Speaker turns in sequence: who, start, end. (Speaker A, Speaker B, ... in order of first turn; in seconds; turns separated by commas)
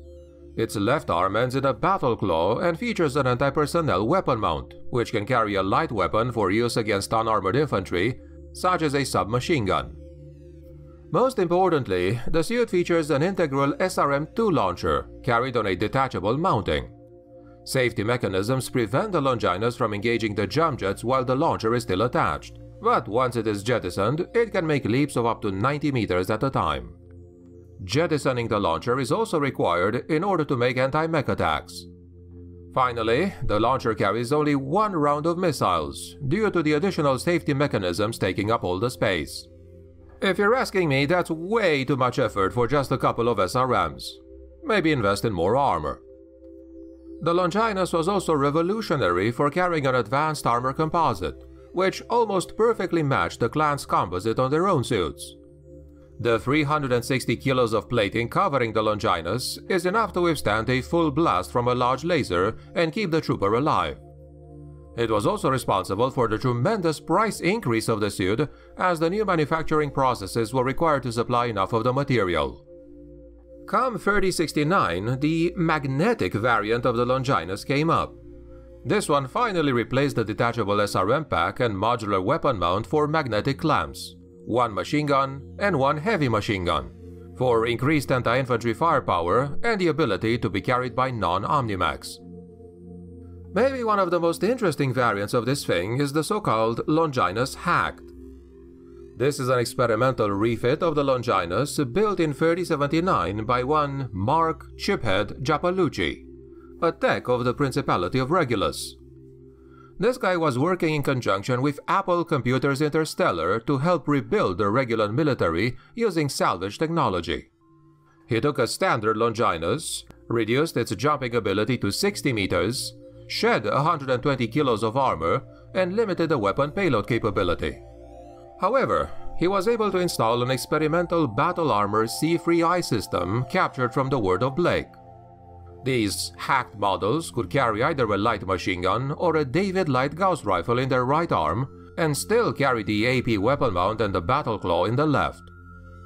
Speaker A: 0.6-10.0, Speaker A: 11.1-16.9, Speaker A: 17.6-27.0, Speaker A: 27.8-31.9, Speaker A: 32.7-39.5, Speaker A: 40.2-46.0, Speaker A: 47.2-55.4, Speaker A: 56.2-64.0, Speaker A: 65.0-72.6, Speaker A: 73.7-78.2, Speaker A: 78.8-92.2, Speaker A: 93.5-98.1, Speaker A: 99.2-106.3, Speaker A: 106.8-109.0, Speaker A: 110.0-117.5, Speaker A: 118.3-127.8, Speaker A: 128.6-135.0, Speaker A: 135.8-145.5